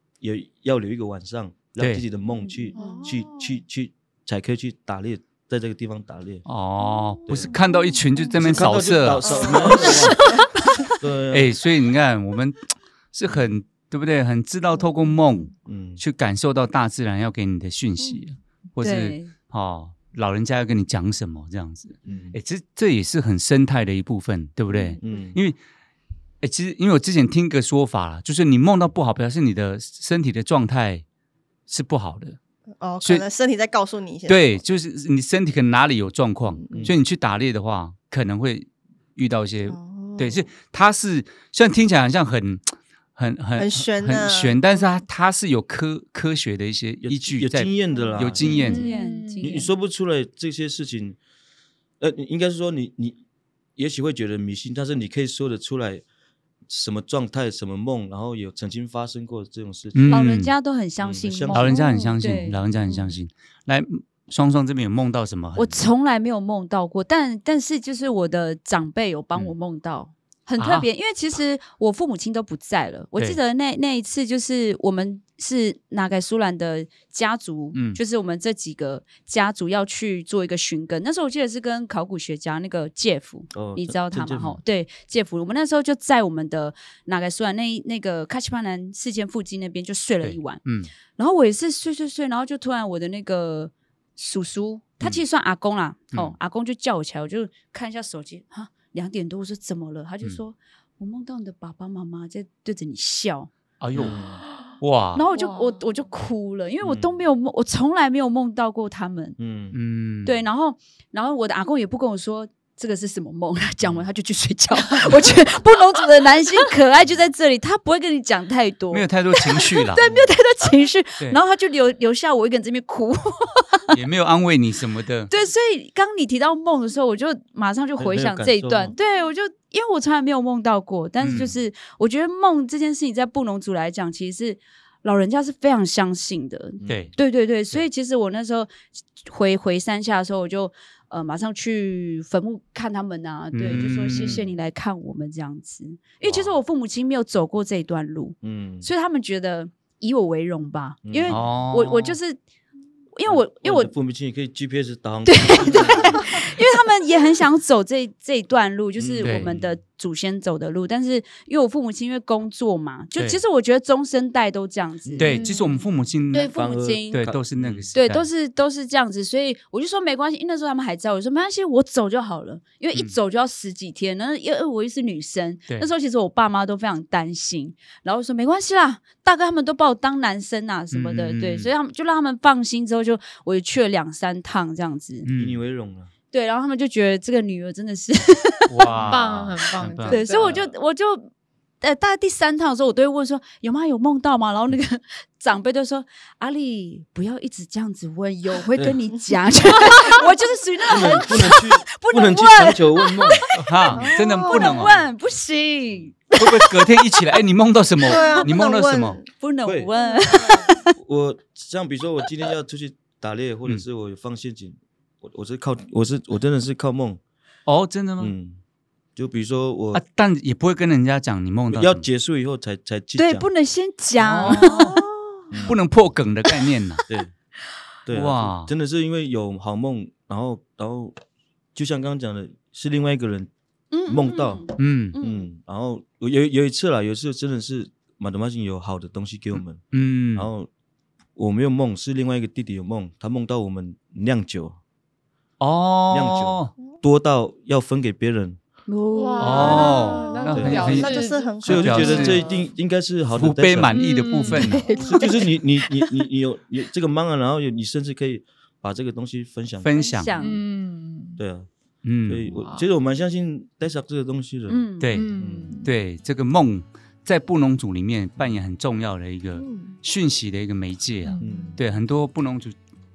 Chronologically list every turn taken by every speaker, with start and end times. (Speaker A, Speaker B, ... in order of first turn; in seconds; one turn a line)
Speaker A: 0.2-6.4
Speaker B: 1.8-2.0
Speaker C: 2.3-3.6
Speaker D: 2.7-3.2
Speaker B: 6.5-9.4
Speaker C: 6.8-8.4
Speaker A: 7.3-7.5
Speaker A: 8.3-10.4
Speaker C: 9.2-10.4
Speaker E: 9.4-10.9
Speaker A: 11.0-11.5
Speaker B: 11.3-25.6
Speaker C: 14.8-15.1
Speaker A: 15.6-16.0
Speaker E: 18.8-19.3
Speaker A: 22.1-22.4
Speaker A: 25.0-25.4
Speaker B: 26.4-31.0
Speaker B: 31.7-32.4
Speaker C: 32.8-34.6
Speaker B: 34.2-48.8
Speaker C: 36.5-36.9
Speaker A: 36.7-37.0
Speaker C: 39.7-40.4
Speaker C: 43.6-44.6
Speaker A: 47.0-48.8
Speaker D: 48.2-49.7
Speaker E: 48.4-49.7
Speaker A: 49.4-51.2
Speaker A: 52.0-53.2
Speaker A: 53.8-56.0
Speaker A: 56.7-60.3
Speaker B: 59.9-60.5
Speaker E: 60.1-63.1
Speaker A: 61.0-61.9
Speaker B: 61.5-65.8
Speaker E: 65.5-90.6
Speaker B: 70.6-70.9
Speaker B: 77.7-78.0
Speaker A: 83.5-84.6
Speaker B: 90.2-90.9
Speaker E: 91.2-103.5
Speaker B: 103.8-104.2
Speaker A: 103.9-104.4
Speaker B: 104.8-105.2
Speaker E: 105.2-109.4
Speaker D: 105.3-105.7
Speaker A: 106.8-107.2
Speaker A: 109.4-109.8
Speaker B: 109.7-110.3
Speaker E: 110.2-124.0
Speaker A: 113.8-114.1
Speaker B: 118.9-120.0
Speaker A: 120.0-120.3
Speaker B: 123.9-125.3
Speaker E: 125.3-152.4
Speaker A: 128.0-128.9
Speaker B: 131.2-131.5
Speaker A: 136.8-137.1
Speaker B: 136.8-137.1
Speaker B: 143.5-144.4
Speaker A: 144.1-144.4
Speaker A: 146.2-146.5
Speaker A: 148.4-148.9
Speaker A: 151.0-151.4
Speaker B: 151.3-152.2
Speaker E: 153.1-153.9
Speaker A: 153.2-156.5
Speaker E: 155.2-165.4
Speaker A: 159.0-159.8
Speaker B: 159.2-159.5
Speaker B: 165.2-166.5
Speaker D: 165.2-165.8
Speaker E: 166.3-167.3
Speaker A: 166.5-167.9
Speaker B: 167.1-168.2
Speaker E: 167.9-185.3
Speaker B: 180.9-181.7
Speaker B: 185.2-185.6
Speaker A: 185.3-186.1
Speaker E: 186.3-189.0
Speaker B: 188.7-190.2
Speaker D: 189.0-190.7
Speaker E: 190.1-191.3
Speaker E: 191.8-206.8
Speaker A: 200.8-203.4
Speaker B: 203.5-205.0
Speaker C: 203.9-204.9
Speaker B: 206.3-209.2
Speaker C: 208.0-209.3
Speaker E: 208.1-208.5
Speaker E: 209.3-210.9
Speaker A: 209.6-209.9
Speaker C: 210.0-210.7
Speaker A: 210.9-217.2
Speaker B: 217.7-218.3
Speaker A: 218.2-218.6
Speaker A: 219.2-220.0
Speaker B: 219.9-222.0
Speaker A: 221.7-223.5
Speaker E: 223.2-225.5
Speaker B: 224.3-225.0
Speaker C: 224.6-225.0
Speaker A: 225.5-225.8
Speaker B: 225.6-227.0
Speaker A: 227.1-227.3
Speaker A: 228.1-231.1
Speaker B: 228.1-228.7
Speaker A: 231.7-233.5
Speaker E: 233.9-235.5
Speaker A: 234.1-239.8
Speaker B: 234.8-235.2
Speaker B: 239.9-240.5
Speaker A: 240.3-240.7
Speaker A: 241.3-244.8
Speaker B: 245.6-246.7
Speaker A: 246.1-248.6
Speaker E: 248.9-250.2
Speaker D: 249.1-252.5
Speaker B: 249.4-252.4
Speaker C: 249.6-252.6
Speaker A: 250.5-251.0
Speaker A: 251.6-253.9
Speaker B: 253.3-254.8
Speaker D: 253.9-255.0
Speaker E: 254.5-256.0
Speaker A: 255.0-259.9
Speaker B: 259.8-260.3
Speaker E: 259.9-260.6
Speaker D: 260.4-261.4
Speaker A: 261.4-261.7
Speaker B: 262.0-262.5
Speaker A: 262.3-264.8
Speaker D: 262.5-262.9
Speaker E: 264.7-265.1
Speaker B: 265.0-265.3
Speaker D: 265.1-265.9
Speaker A: 265.4-265.7
Speaker B: 265.8-272.7
Speaker C: 269.5-269.9
Speaker D: 271.2-271.8
Speaker A: 271.4-271.8